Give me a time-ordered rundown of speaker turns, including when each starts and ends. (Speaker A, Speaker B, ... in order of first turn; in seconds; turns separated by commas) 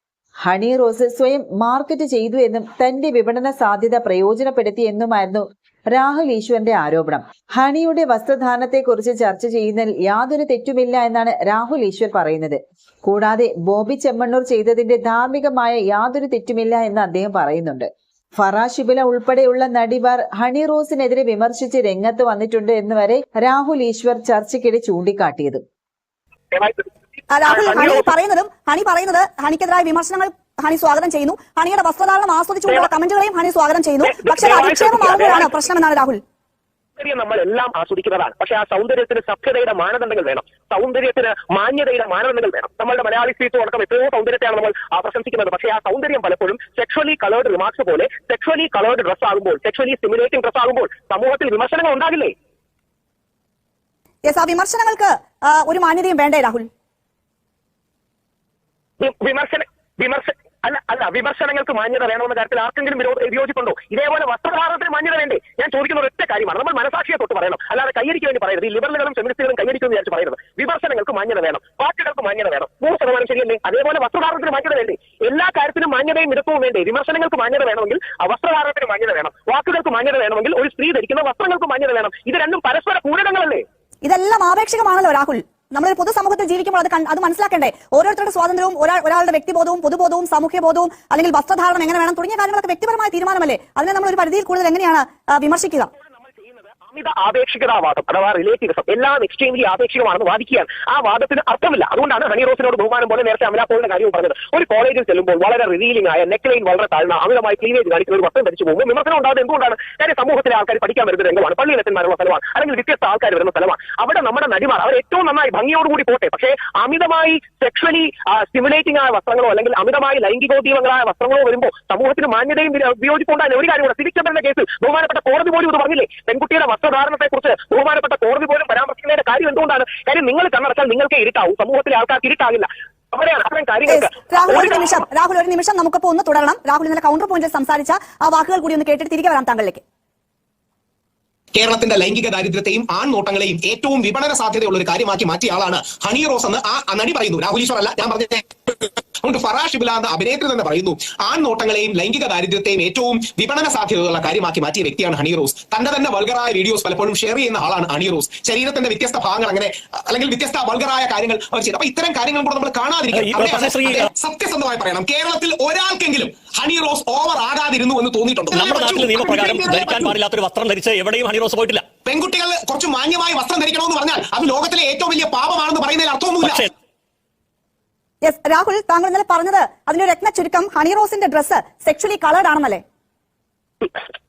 Speaker A: 0.5-25.6, Speaker B: 26.5-26.9, Speaker C: 27.3-36.2, Speaker B: 27.4-28.1, Speaker B: 34.0-35.5, Speaker B: 37.0-52.3, Speaker C: 54.2-56.7, Speaker B: 59.0-83.6, Speaker C: 84.0-95.9, Speaker B: 96.0-135.0, Speaker C: 133.9-139.8, Speaker D: 141.5-170.1, Speaker E: 163.1-164.1, Speaker E: 168.5-171.9, Speaker D: 172.1-176.7, Speaker E: 176.4-176.7, Speaker C: 178.2-182.8